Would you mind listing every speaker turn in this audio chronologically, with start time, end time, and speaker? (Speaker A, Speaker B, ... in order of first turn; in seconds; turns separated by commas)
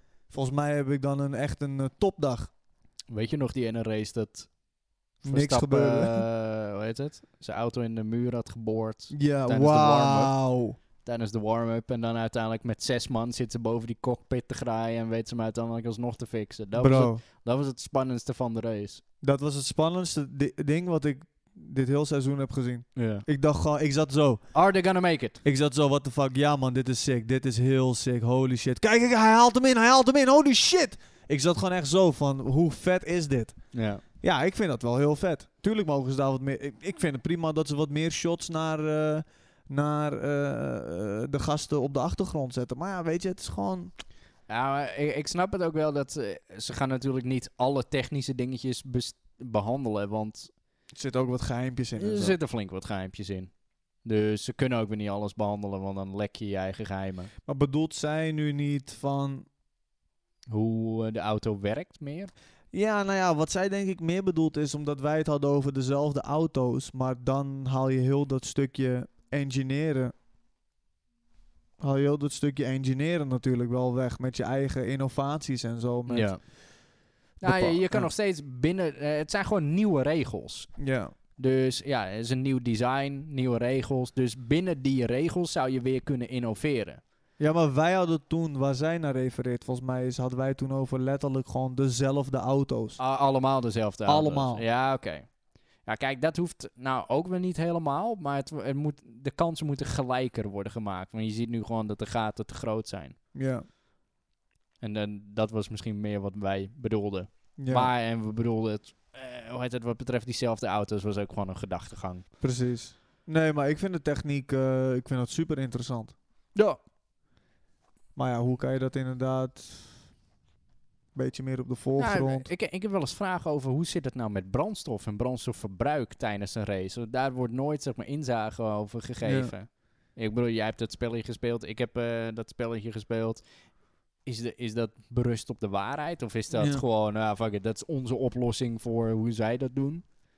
Speaker A: 0.3-2.5, Speaker B: 3.1-4.6, Speaker B: 5.2-10.4, Speaker A: 5.2-6.2, Speaker A: 9.1-10.8, Speaker B: 11.0-19.0, Speaker A: 16.8-17.2, Speaker A: 19.2-24.5, Speaker B: 22.9-23.3, Speaker B: 24.5-25.4, Speaker A: 25.4-43.9, Speaker B: 33.7-34.0, Speaker B: 44.5-50.5, Speaker A: 50.9-52.4, Speaker B: 52.0-57.3, Speaker A: 57.5-59.5, Speaker B: 60.5-62.3, Speaker A: 62.7-70.1, Speaker A: 71.8-76.6, Speaker B: 76.1-76.4, Speaker B: 77.4-87.0, Speaker A: 77.4-78.1, Speaker A: 80.8-81.1, Speaker A: 87.4-93.0, Speaker B: 93.0-103.2, Speaker A: 94.0-94.7, Speaker A: 103.3-103.7, Speaker B: 104.8-112.3, Speaker A: 107.5-107.9, Speaker A: 112.4-116.2, Speaker A: 118.1-120.1, Speaker A: 121.1-122.5, Speaker B: 122.0-140.0, Speaker A: 129.2-129.5, Speaker A: 136.5-136.8